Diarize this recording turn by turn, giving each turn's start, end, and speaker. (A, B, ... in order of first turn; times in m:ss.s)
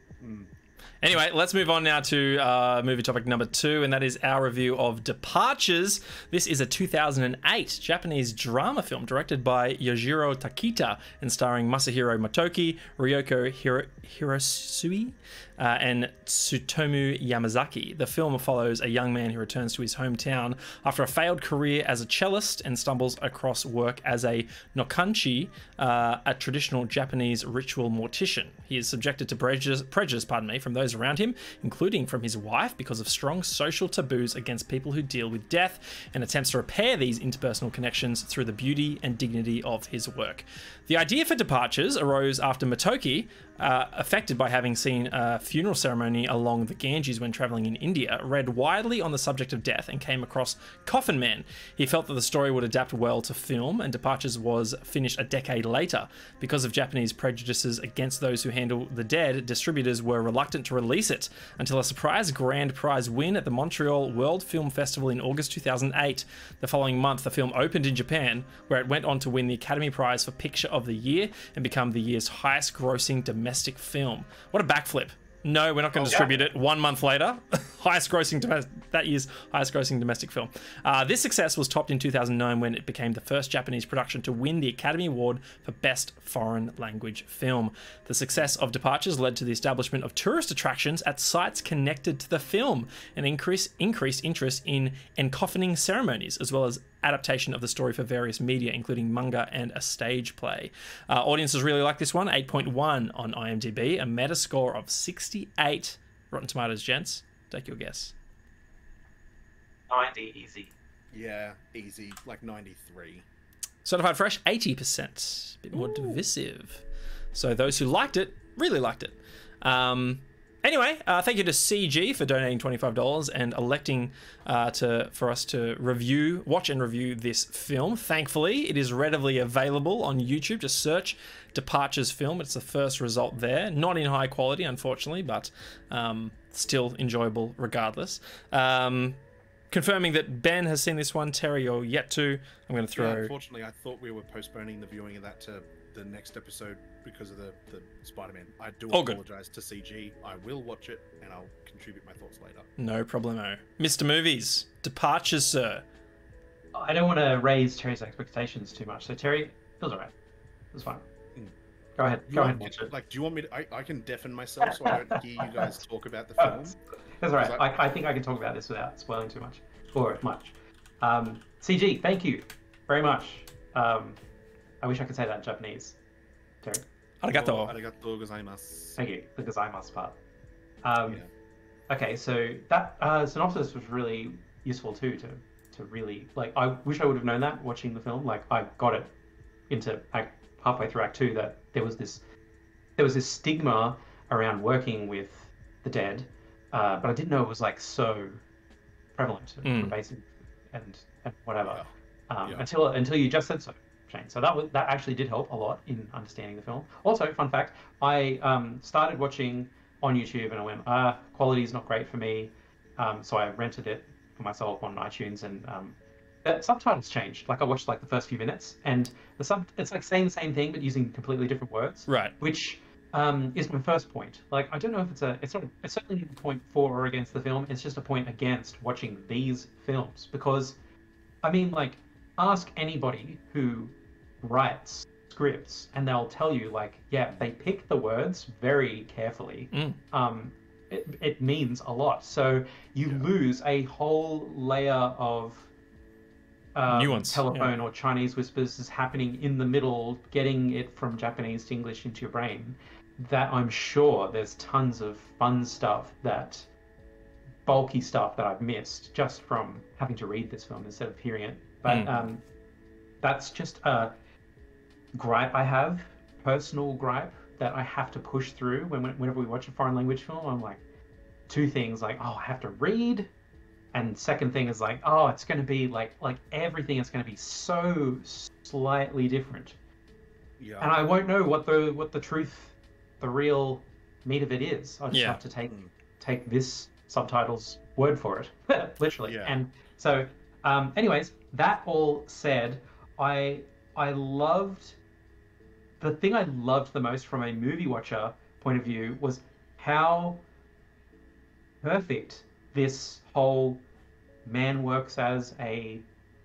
0:00.2-0:00.5 A
0:01.0-1:48.1 B
1:15.9-1:16.3 A
1:49.9-1:50.7 C
1:51.1-1:53.2 A
1:53.8-1:56.8 B
1:57.3-2:19.2 B
2:19.7-2:23.3 B
2:22.9-2:32.7 A
2:28.9-2:29.2 B
2:32.8-2:35.8 B
2:36.7-2:40.1 C
2:40.7-2:41.0 C
2:42.0-2:42.9 C
2:42.3-2:46.8 A
2:44.9-2:45.8 C
2:46.4-2:54.2 C
2:47.3-2:47.6 A
2:54.8-2:56.0 C
2:57.2-2:57.8 B
2:57.3-2:59.0 A
2:59.0-3:00.2 C
3:00.8-3:01.2 C
3:01.9-3:09.1 C
3:09.7-3:12.2 C
3:13.0-3:18.4 C
3:19.2-3:50.8 C
3:19.6-3:19.9 B
3:42.1-3:42.3 B
3:51.4-4:05.7 C
3:59.7-4:00.0 B
4:06.7-4:16.7 C
4:06.9-4:07.7 B
4:17.6-4:22.4 C
4:21.9-4:22.1 B
4:23.2-4:24.1 C
4:25.1-4:30.8 C
4:31.5-4:33.3 C
4:33.9-4:39.8 C
4:40.6-4:40.9 A
4:40.8-4:55.0 C
4:45.1-4:45.4 B
4:49.2-4:49.6 A
4:56.0-5:00.4 C
5:01.8-5:03.8 C
5:04.4-5:06.0 C